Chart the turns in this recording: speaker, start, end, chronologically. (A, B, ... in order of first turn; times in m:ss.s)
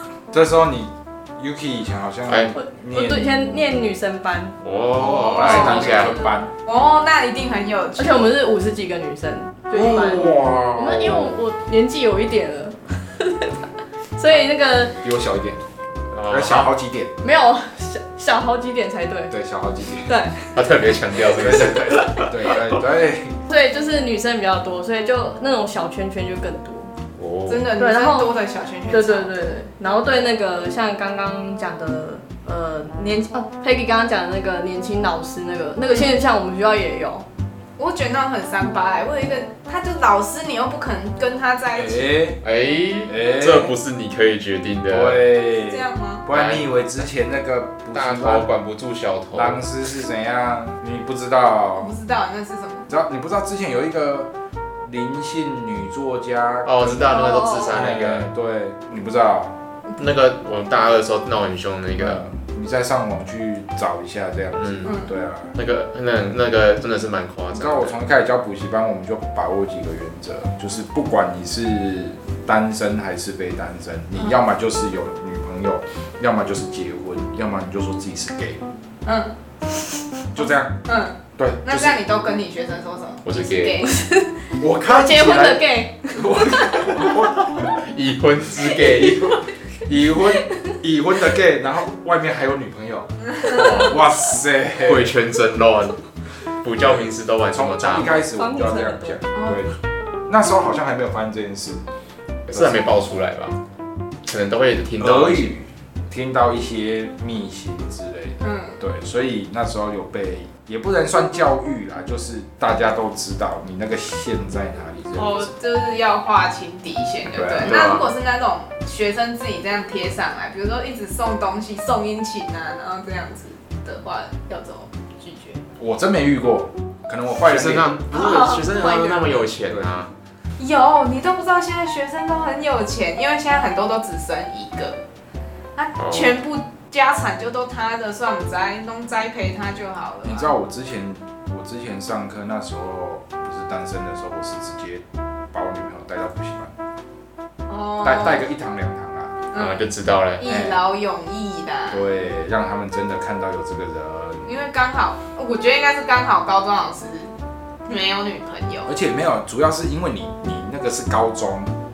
0:00.3-0:03.5 A
0:02.3-0:02.5 B
0:02.5-0:06.3 C
0:04.6-0:06.2 B
0:05.0-0:05.8 D
0:05.3-0:06.5 A
0:06.6-0:08.3 D
0:08.0-0:15.0 C
0:09.7-0:11.4 A
0:15.0-0:15.6 A
0:16.1-0:16.7 B
0:16.3-0:17.1 A
0:17.2-0:19.3 C
0:19.3-0:20.2 A
0:20.0-0:20.6 C
0:20.5-0:22.3 B
0:21.3-0:23.4 A
0:22.0-0:22.3 C
0:23.5-0:26.9 C
0:27.2-0:27.7 B
0:27.5-0:29.4 D
0:27.7-0:28.3 C
0:28.9-0:37.2 C
0:35.9-0:36.1 D
0:37.8-0:42.1 D
0:41.7-0:42.4 A
0:42.4-0:45.3 B
0:43.1-0:43.7 A
0:44.9-0:48.5 A
0:45.6-0:46.2 D
0:46.3-0:46.7 B
0:47.9-0:49.6 B
0:49.3-0:51.9 A
0:51.8-0:52.9 D
0:52.9-0:54.3 A
0:54.8-0:59.6 A
0:56.6-0:58.3 B
0:57.0-0:57.7 C
1:00.0-1:02.2 B
1:01.9-1:05.5 A
1:04.6-1:04.9 B
1:04.8-1:05.1 D
1:05.5-1:07.9 B
1:07.5-1:18.6 A
1:19.0-1:19.3 D
1:20.3-1:20.8 A
1:20.8-1:24.0 D
1:21.3-1:22.0 A
1:23.2-1:23.8 B
1:23.8-1:27.0 C
1:24.6-1:27.8 A
1:27.4-1:29.4 B
1:28.8-1:29.3 C
1:29.8-1:35.1 A
1:30.2-1:30.7 C
1:33.4-1:34.0 B
1:34.8-1:36.0 B
1:36.6-1:38.2 B
1:36.8-1:41.8 A
1:38.3-1:39.2 C
1:39.3-1:39.6 D
1:42.5-1:43.6 B
1:42.5-1:42.9 A
1:44.2-1:45.6 B
1:45.0-1:55.5 A
1:48.4-1:48.8 D
1:55.1-2:05.6 D
1:57.3-1:57.8 A
1:57.6-1:58.1 B
2:05.8-2:08.0 A
2:07.4-2:10.1 B
2:08.1-2:09.3 D
2:09.7-2:10.1 A
2:10.6-2:15.0 D
2:15.8-2:20.5 D
2:16.0-2:16.4 B
2:20.2-2:26.7 A
2:27.7-2:28.5 D
2:28.0-2:29.4 A
2:29.5-2:32.0 D
2:29.5-2:30.4 B
2:30.4-2:30.8 A
2:31.9-2:34.5 A
2:34.4-2:37.3 D
2:37.8-2:38.9 D
2:38.9-2:41.7 A